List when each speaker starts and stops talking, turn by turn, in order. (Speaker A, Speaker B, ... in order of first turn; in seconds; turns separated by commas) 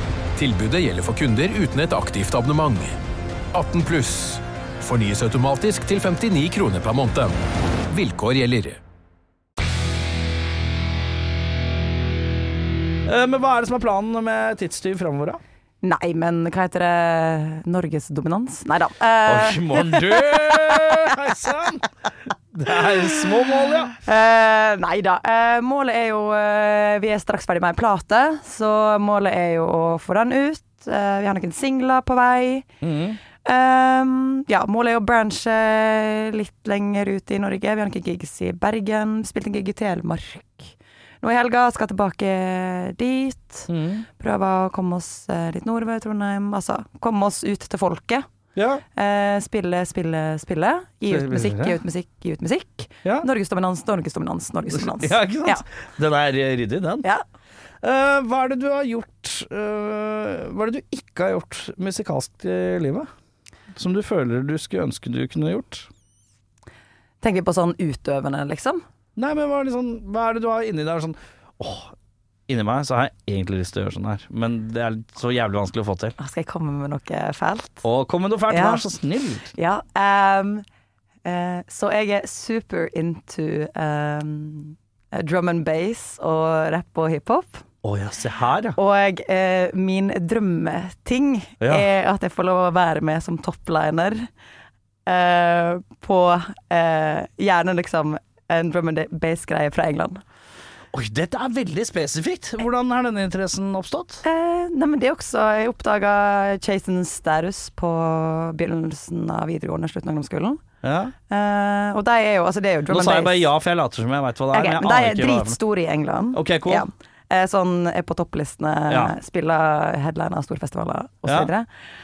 Speaker A: 0.3-3.0, Speaker A: 3.5-7.3, Speaker A: 7.9-8.8, Speaker B: 13.1-15.4, Speaker C: 15.8-20.9, Speaker B: 19.2-21.9, Speaker B: 22.5-24.0, Speaker C: 24.0-32.7, Speaker B: 32.8-33.2, Speaker C: 33.4-48.2, Speaker B: 43.7-44.0, Speaker B: 48.5-48.8, Speaker C: 48.9-55.6, Speaker B: 51.1-51.8, Speaker B: 54.7-57.1, Speaker B: 57.8-63.1, Speaker B: 63.7-65.9, Speaker C: 67.2-68.8, Speaker B: 69.2-71.9, Speaker B: 72.5-76.2, Speaker C: 76.2-77.8, Speaker B: 77.8-79.5, Speaker C: 78.5-78.8, Speaker C: 79.5-80.6, Speaker C: 81.2-87.6, Speaker B: 87.8-88.8, Speaker C: 88.8-94.3, Speaker B: 91.6-91.9, Speaker C: 95.0-100.2, Speaker B: 100.9-104.2, Speaker C: 104.2-110.6, Speaker B: 110.8-111.1, Speaker C: 111.3-113.5, Speaker B: 112.9-115.6, Speaker C: 114.5-121.7, Speaker B: 116.3-116.8, Speaker B: 118.9-119.1, Speaker B: 121.2-121.5